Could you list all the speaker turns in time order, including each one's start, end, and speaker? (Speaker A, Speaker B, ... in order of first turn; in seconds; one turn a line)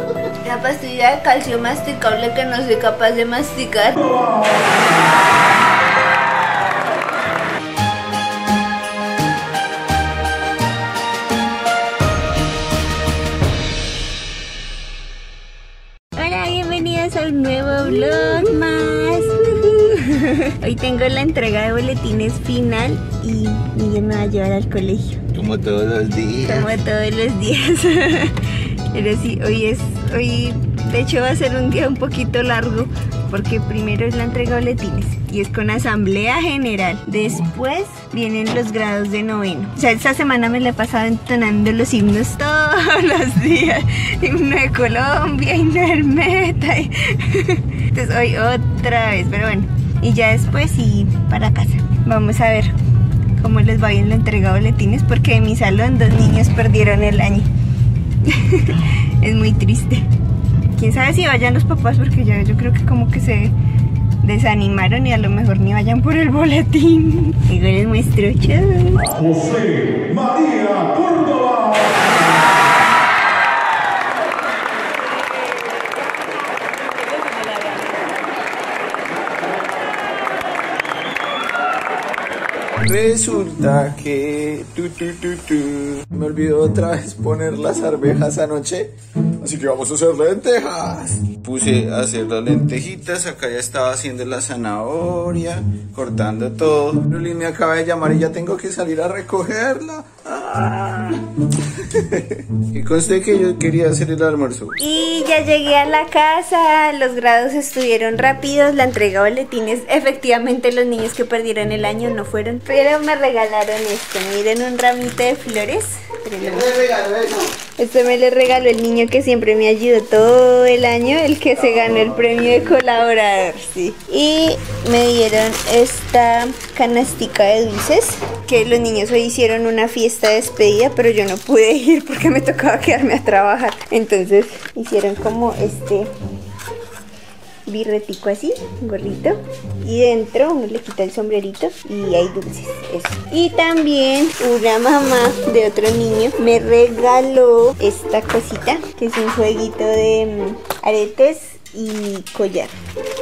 Speaker A: 0.4-4.1
Speaker A: 16.1-25.2
Speaker B: 25.3-26.8
Speaker A: 26.4-28.3
Speaker A: 28.9-52.7
Speaker A: 53.4-57.5
Speaker A: 58.2-60.0
Speaker A: 60.8-63.5
Speaker A: 64.2-69.8
Speaker B: 82.8-101.2
Speaker B: 101.8-104.8
Speaker A: 104.8-116.7
Speaker B: 116.4-117.5
Speaker A: 117.8-136.1
Speaker B: 121.9-122.2
Speaker A: 137.7-152.7